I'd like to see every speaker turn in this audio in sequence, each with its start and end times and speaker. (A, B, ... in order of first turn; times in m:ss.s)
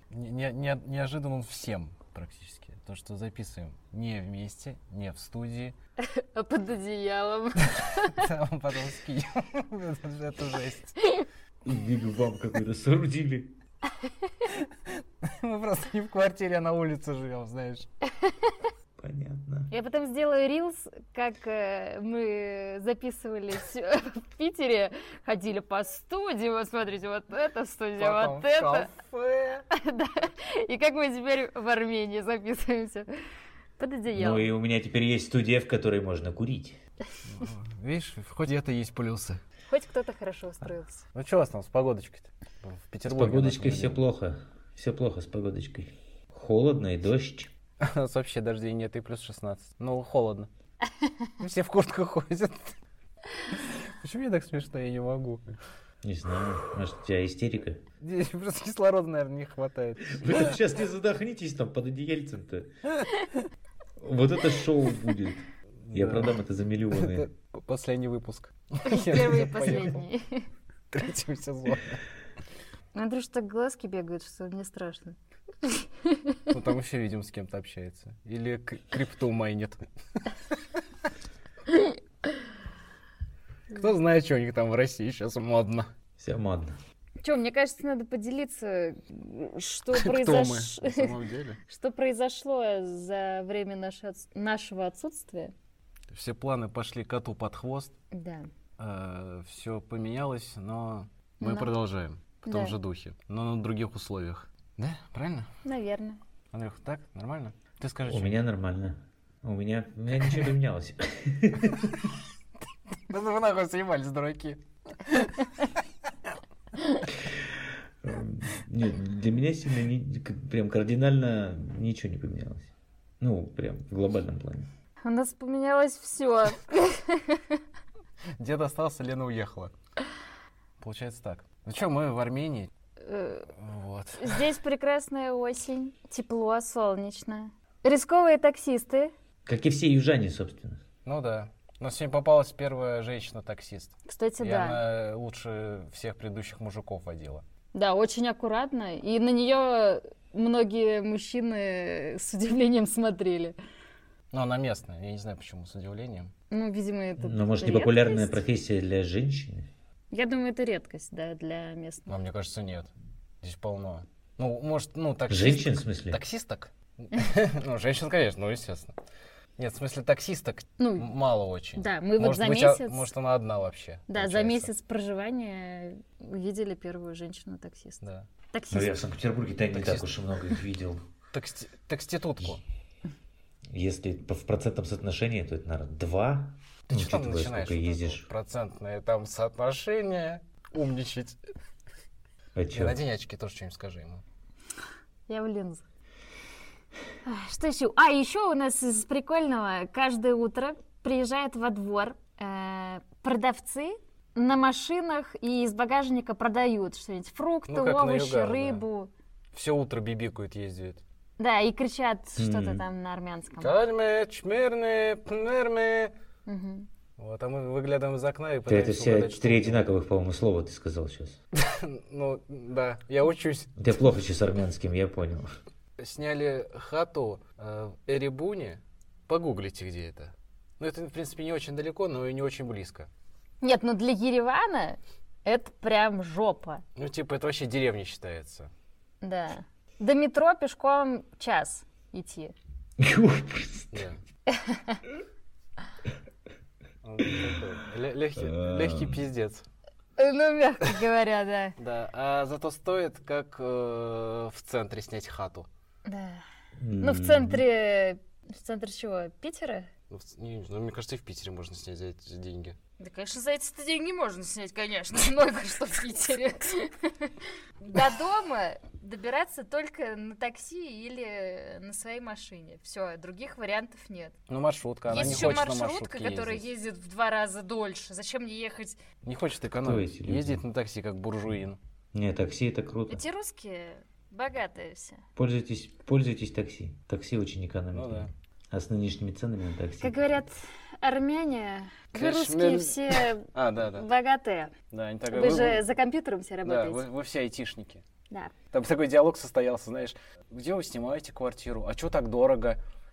0:00.1-0:05.7 A
0:06.0-0:08.2 B
0:07.6-0:11.0 A
0:11.6-0:13.5 C
0:14.5-0:17.9 A
0:18.2-0:18.6 B
0:19.0-0:19.7 C
0:19.7-0:28.9 B
0:28.0-0:29.6 A
0:29.7-0:33.1 B
0:33.8-0:34.5 B
0:34.1-0:36.8 C
0:37.3-0:39.4 A
0:39.7-0:41.0 B
0:41.1-0:44.0 A
0:43.1-0:47.5 C
0:47.8-0:50.5 A
0:51.4-0:52.7 A
0:53.5-0:55.5 A
0:56.0-0:57.8 C
0:58.0-1:00.5 A
1:00.1-1:02.7 C
1:04.0-1:07.2 C
1:05.8-1:06.4 A
1:06.9-1:10.0 A
1:08.8-1:10.5 B
1:10.9-1:12.0 A
1:12.9-1:16.4 B
1:16.5-1:19.8 A
1:23.7-1:25.9 A
1:26.2-1:26.8 C
1:27.2-1:31.1 B
1:29.9-1:31.6 A
1:31.6-1:35.5 B
1:36.1-1:37.9 A
1:38.1-1:38.5 B
1:38.8-1:45.5 A
1:41.4-1:41.7 B
1:42.4-1:42.7 B
1:45.6-1:46.2 B
1:46.5-1:48.4 A
1:48.0-1:52.0 C
1:53.1-1:55.5 A
1:57.3-2:04.7 C
2:05.0-2:07.6 B
2:08.4-2:09.7 A
2:10.8-2:12.7 A
2:13.0-2:13.5 B
2:13.6-2:14.5 A
2:14.2-2:19.1 B
2:19.4-2:20.8 C
2:21.0-2:27.4 A
2:24.1-2:24.8 B
2:27.7-2:33.6 B
2:34.3-2:36.3 A
2:36.5-2:38.4 B
2:37.2-2:39.7 C
2:40.1-2:42.1 B
2:42.1-2:42.9 A
2:43.4-2:49.0 A
2:45.3-2:46.2 C
2:49.6-2:54.7 A
2:50.8-2:51.1 B
2:51.7-2:53.1 B
2:54.1-2:58.9 B
2:58.0-2:58.3 A
2:58.7-3:01.0 C
2:59.7-3:00.1 A
3:01.3-3:02.6 A
3:03.7-3:08.3 C
3:06.9-3:11.4 A
3:12.5-3:13.0 C
3:12.7-3:14.2 A
3:15.3-3:15.8 B
3:17.2-3:29.1 B
3:27.7-3:28.8 A
3:29.5-3:31.0 A
3:31.4-3:33.8 B
3:32.4-3:32.8 C
3:33.6-3:36.1 A
3:36.4-3:36.9 B
3:37.2-3:39.9 A
3:38.7-3:41.4 C
3:41.5-3:43.7 A
3:43.8-3:45.5 C
3:46.0-3:53.1 A
3:53.6-3:56.8 B
3:57.0-3:58.7 A
3:59.2-4:02.5 B
4:03.0-4:04.0 C
4:03.9-4:04.2 A
4:04.5-4:05.0 B
4:07.0-4:09.6 A
4:08.4-4:09.2 C
4:10.2-4:11.7 B
4:11.8-4:15.7 A
4:16.0-4:16.4 B
4:16.8-4:17.6 C
4:17.0-4:19.9 B
4:20.1-4:22.8 A
4:23.0-4:34.3 B
4:34.5-4:36.7 A
4:35.1-4:39.0 B
4:35.2-4:35.5 C
4:39.2-4:41.8 A
4:39.8-4:40.6 C
4:42.1-4:43.2 C
4:43.1-4:45.2 B
4:45.4-4:50.2 C
4:47.9-4:48.3 A
4:50.0-4:54.7 B
4:52.1-4:54.0 A
4:54.9-4:55.8 A
4:55.3-4:57.0 B
4:56.6-4:58.0 A
4:58.7-5:02.8 A